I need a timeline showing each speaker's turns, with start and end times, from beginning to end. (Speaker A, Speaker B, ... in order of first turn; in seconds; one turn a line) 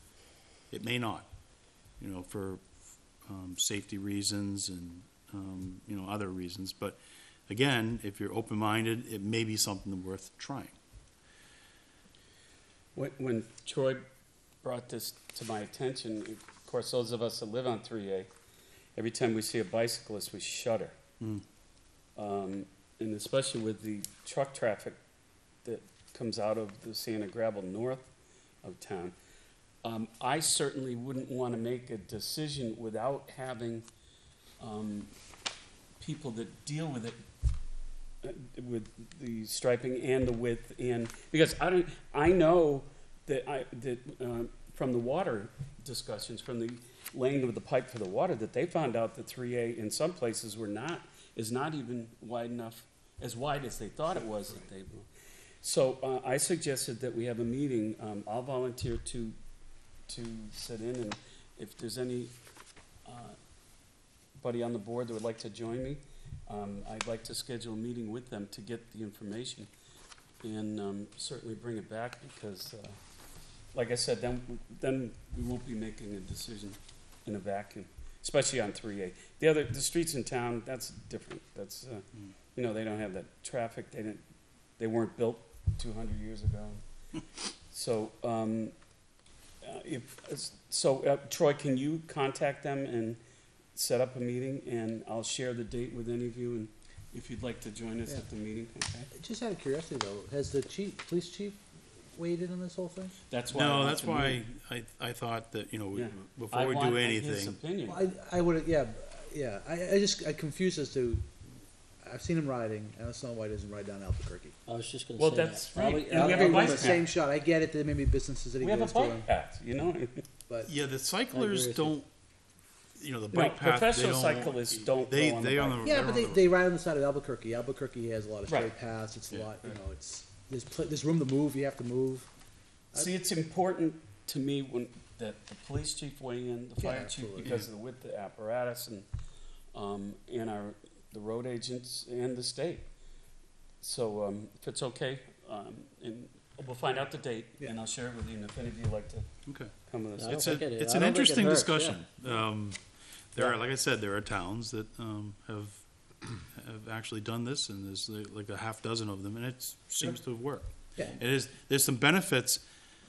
Speaker A: 0.7-1.3
Speaker A: 2.0-2.6
Speaker A: 3.2-7.0
Speaker A: 7.5-10.7
Speaker B: 12.9-14.0
Speaker B: 14.6-18.3
Speaker B: 18.9-20.9
Speaker B: 22.2-25.0
Speaker B: 25.6-28.1
Speaker B: 28.6-29.1
Speaker B: 29.8-33.9
Speaker B: 34.6-35.1
Speaker B: 36.0-37.2
Speaker B: 38.2-55.1
Speaker B: 55.6-59.4
Speaker B: 60.1-62.3
Speaker B: 63.0-63.4
Speaker B: 64.4-69.7
Speaker B: 70.4-73.0
Speaker B: 73.7-82.0
Speaker B: 82.5-84.2
Speaker B: 84.8-86.8
Speaker B: 87.7-88.7
Speaker B: 89.6-93.2
Speaker B: 93.7-99.1
Speaker C: 99.1-101.6
Speaker C: 102.1-103.1
Speaker B: 103.3-104.4
Speaker A: 103.5-107.6
Speaker B: 105.9-108.1
Speaker C: 107.8-111.2
Speaker C: 112.0-114.5
Speaker D: 114.7-117.0
Speaker B: 115.2-117.0
Speaker C: 116.1-119.2
Speaker B: 118.6-120.2
Speaker A: 120.7-122.1
Speaker D: 121.3-121.9
Speaker A: 123.0-126.4
Speaker B: 123.3-126.0
Speaker C: 125.8-132.3
Speaker B: 132.9-139.1
Speaker C: 136.8-137.5
Speaker B: 139.7-142.8
Speaker B: 143.8-149.2
Speaker A: 149.4-149.7
Speaker B: 149.9-150.6
Speaker D: 150.2-152.0
Speaker A: 150.3-152.8
Speaker A: 153.3-155.8
Speaker A: 156.5-162.6